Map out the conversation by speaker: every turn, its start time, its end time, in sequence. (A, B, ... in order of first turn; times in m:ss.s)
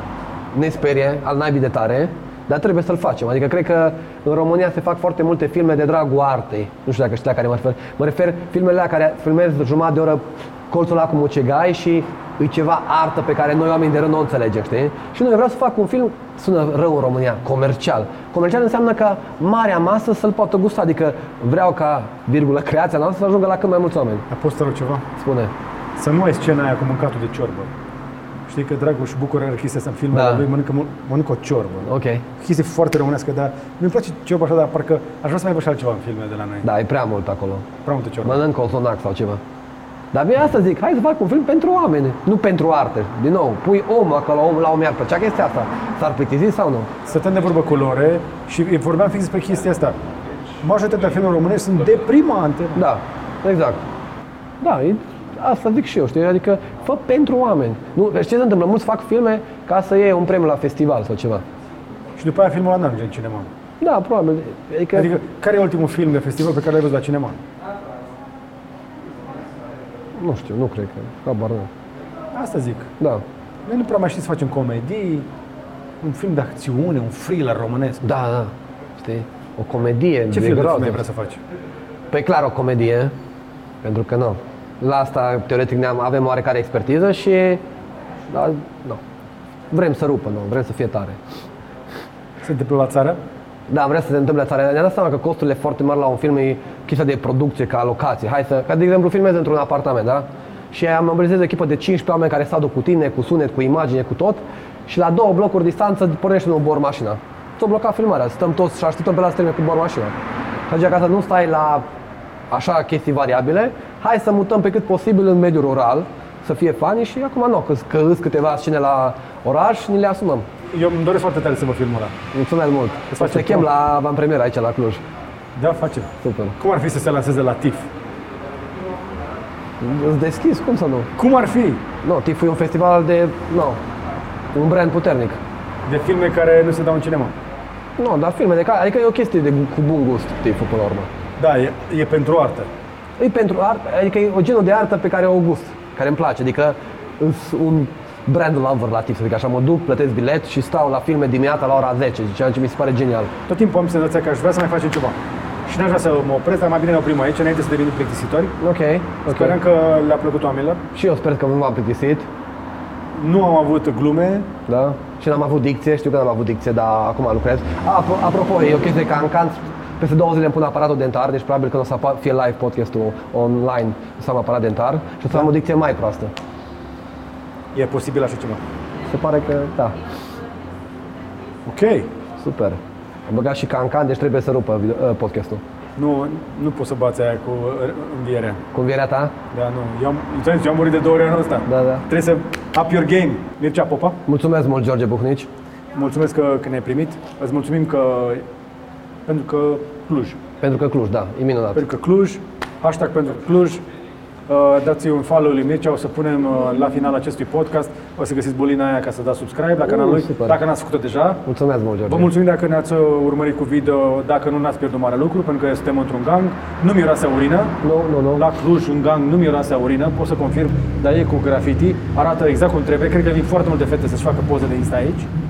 0:00.5-0:24.2 A
0:24.3-0:25.1 B
0:25.2-0:25.5 A
0:26.0-0:27.7 B
0:28.5-0:36.7 B
0:30.1-0:30.5 A
0:31.8-0:32.2 A
0:36.6-0:37.7 A
0:37.8-0:38.4 B
0:38.2-0:39.4 A
0:40.1-0:46.9 A
0:47.0-0:50.0 B
0:50.6-0:52.8 B
0:52.8-0:53.9 A
0:54.6-1:01.4 A
1:02.2-1:03.5 B
1:03.8-1:05.1 A
1:04.9-1:07.4 B
1:10.1-1:11.7 A
1:12.3-1:12.9 B
1:13.6-1:15.3 B
1:16.0-1:18.0 B
1:18.0-1:21.0 A
1:20.3-1:21.4 B
1:22.1-1:23.1 A
1:23.8-1:27.6 A
1:28.3-1:29.0 A
1:29.7-1:31.2 A
1:32.4-1:33.2 B
1:33.7-1:50.1 A
1:50.7-1:51.8 A
1:52.5-2:00.5 A
2:00.7-2:02.2 B
2:02.3-2:05.0 A
2:03.1-2:03.7 B
2:05.6-2:07.9 B
2:06.2-2:06.6 A
2:09.8-2:11.1 A
2:11.2-2:11.8 B
2:12.0-2:13.8 A
2:14.5-2:15.4 A
2:15.8-2:17.3 B
2:18.0-2:21.1 A
2:21.4-2:22.7 B
2:23.2-2:33.3 A
2:33.5-2:38.6 B
2:38.6-2:39.6 A
2:39.3-2:40.8 B
2:40.9-2:42.3 A
2:43.1-2:44.5 B
2:44.7-2:56.3 A
2:57.7-2:58.6 B
2:59.1-3:00.0 A
3:01.6-3:02.1 B
3:02.4-3:05.6 A
3:06.0-3:08.6 B
3:08.7-3:09.3 A
3:09.5-3:14.2 B
3:11.7-3:12.0 A
3:14.3-3:15.5 A
3:15.9-3:18.4 B
3:19.3-3:20.4 B
3:20.6-3:21.8 A
3:21.7-3:23.8 B
3:24.5-3:31.4 B
3:29.8-3:30.6 A
3:31.4-3:32.3 A
3:32.1-3:37.8 B
3:37.8-3:38.4 A
3:38.3-3:45.3 B